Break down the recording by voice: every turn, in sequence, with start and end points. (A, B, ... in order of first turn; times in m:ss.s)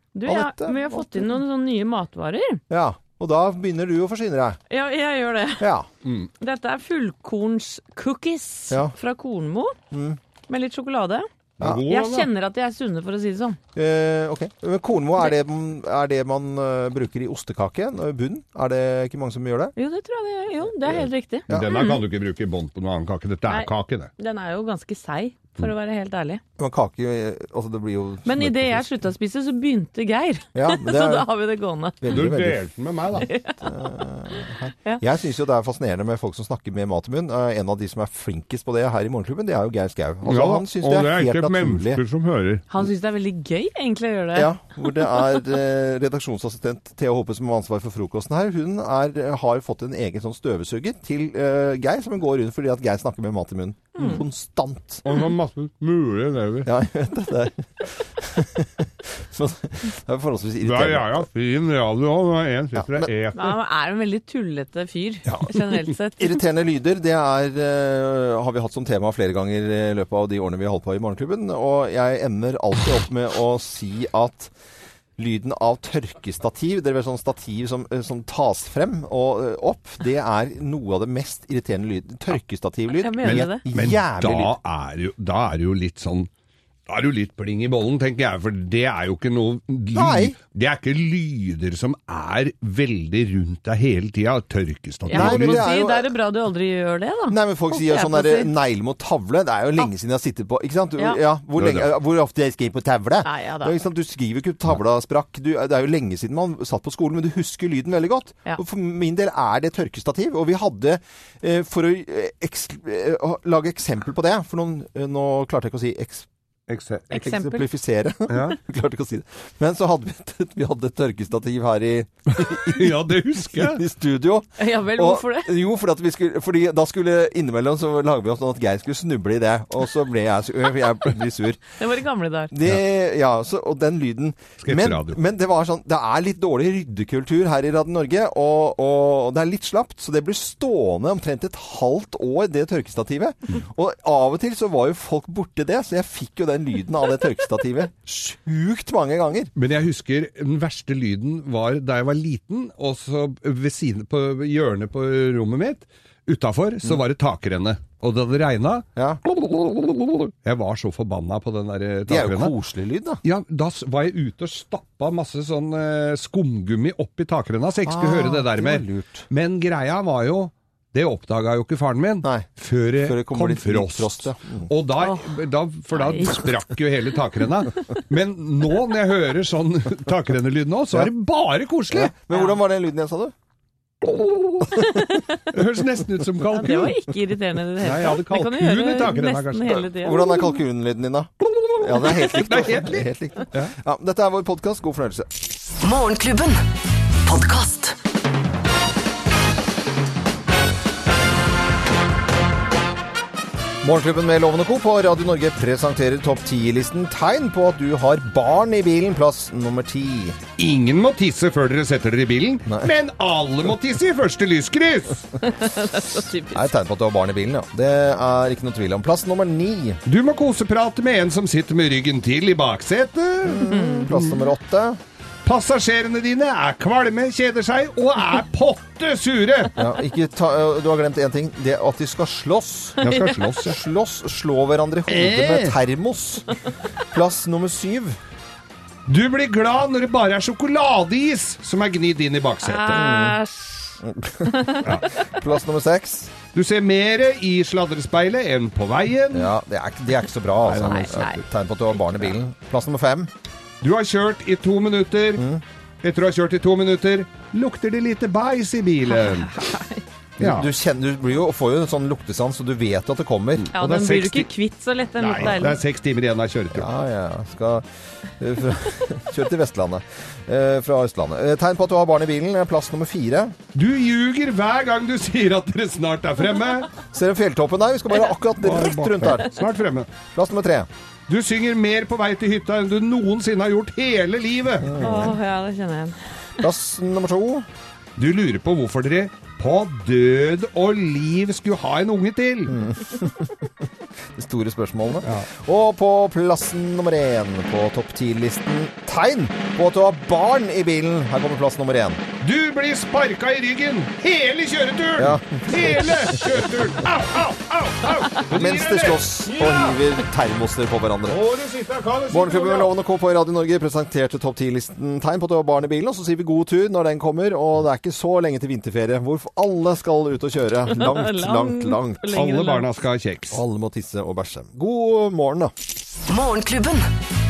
0:00.1-0:02.6 A
0:00.2-0:01.4 B
0:02.7-0:04.6 B
0:04.7-0:05.7 A
0:05.6-0:05.9 B
0:06.0-0:06.3 C
0:06.4-0:09.8 A
0:09.9-0:10.2 B
0:10.5-0:11.3 A
0:11.6-0:12.3 C
0:11.9-0:13.6 A
0:13.7-0:19.7 B
0:19.8-0:22.0 A
0:21.5-0:24.1 C
0:23.5-0:26.4 A
0:26.6-0:28.9 B
0:28.2-0:32.1 A
0:30.5-0:31.3 B
0:32.0-0:32.7 B
0:32.1-0:33.3 C
0:33.2-0:33.6 A
0:33.6-0:42.0 B
0:34.3-0:35.0 A
0:40.2-0:42.6 C
0:42.7-0:44.5 A
0:44.3-0:55.0 B
0:54.0-0:54.2 A
0:55.0-0:56.7 C
0:56.6-1:01.2 B
1:00.6-1:03.5 C
1:02.7-1:03.1 B
1:03.4-1:06.4 A
1:06.2-1:14.5 B
1:15.2-1:24.5 B
1:23.0-1:23.6 A
1:23.2-1:26.3 C
1:26.9-1:35.6 C
1:29.9-1:30.3 B
1:35.1-1:38.5 A
1:35.1-1:36.1 B
1:37.3-1:56.3 B
1:41.6-1:41.9 C
1:43.2-1:43.8 A
1:56.7-1:57.1 C
1:57.1-1:57.6 A
1:57.1-2:11.6 B
1:58.3-1:58.6 C
2:02.4-2:03.8 C
2:04.6-2:05.5 A
2:11.8-2:12.5 A
2:12.5-2:29.5 B
2:14.6-2:15.2 C
2:29.6-2:42.5 C
2:39.0-2:39.2 B
2:42.1-2:43.2 B
2:43.2-3:02.1 C
2:47.8-2:49.3 B
2:52.2-2:52.5 B
2:53.0-2:54.7 B
2:55.0-2:55.3 A
2:55.9-2:56.5 A
3:01.9-3:03.3 B
3:04.1-3:04.7 C
3:04.8-3:05.4 A
3:05.5-3:07.1 C
3:06.5-3:10.5 A
3:07.8-3:09.9 C
3:09.9-3:15.3 B
3:11.5-3:13.7 C
3:15.8-3:16.6 D
3:17.2-3:18.0 D
3:23.8-3:30.4 B
3:30.6-3:35.3 C
3:32.7-3:32.9 B
3:35.4-3:36.7 A
3:36.5-3:40.0 B
3:40.0-3:44.4 C
3:43.4-3:45.0 B
3:43.6-3:44.1 A
3:45.4-3:49.7 C
3:49.8-3:53.0 B
3:53.0-3:53.8 C
3:53.6-3:56.5 B
3:55.1-3:55.8 C
3:57.0-3:58.2 B
3:59.1-4:03.1 C
4:02.6-4:04.9 A
4:02.9-4:03.4 B
4:04.0-4:06.3 B
4:04.8-4:05.1 C
4:06.5-4:09.5 C
4:09.3-4:13.3 B
4:10.7-4:11.4 C
4:10.7-4:11.4 A
4:13.8-4:15.5 C
4:15.4-4:15.6 B
4:16.0-4:19.7 C
4:19.1-4:20.0 A
4:20.4-4:20.7 C
4:20.4-4:23.7 B
4:23.7-4:24.5 C
4:23.7-4:25.8 A
4:25.2-4:26.9 C
4:26.7-4:27.9 B
4:28.4-4:33.6 B
4:33.7-4:36.9 C
4:37.1-4:39.6 B
4:38.6-4:40.1 C
4:40.3-4:40.9 B
4:41.3-4:45.0 C
4:44.8-4:45.3 B
4:45.0-4:46.1 A
4:46.6-4:47.7 B
4:48.2-4:52.8 C
4:52.7-4:53.6 B
4:54.3-5:02.2 B
5:02.4-5:10.0 C
5:05.2-5:06.7 B
5:08.5-5:11.4 B
5:11.3-5:12.9 C
5:12.3-5:22.2 B
5:20.9-5:22.8 A
5:22.3-5:23.6 C
5:23.5-5:25.7 B
5:26.3-5:27.1 D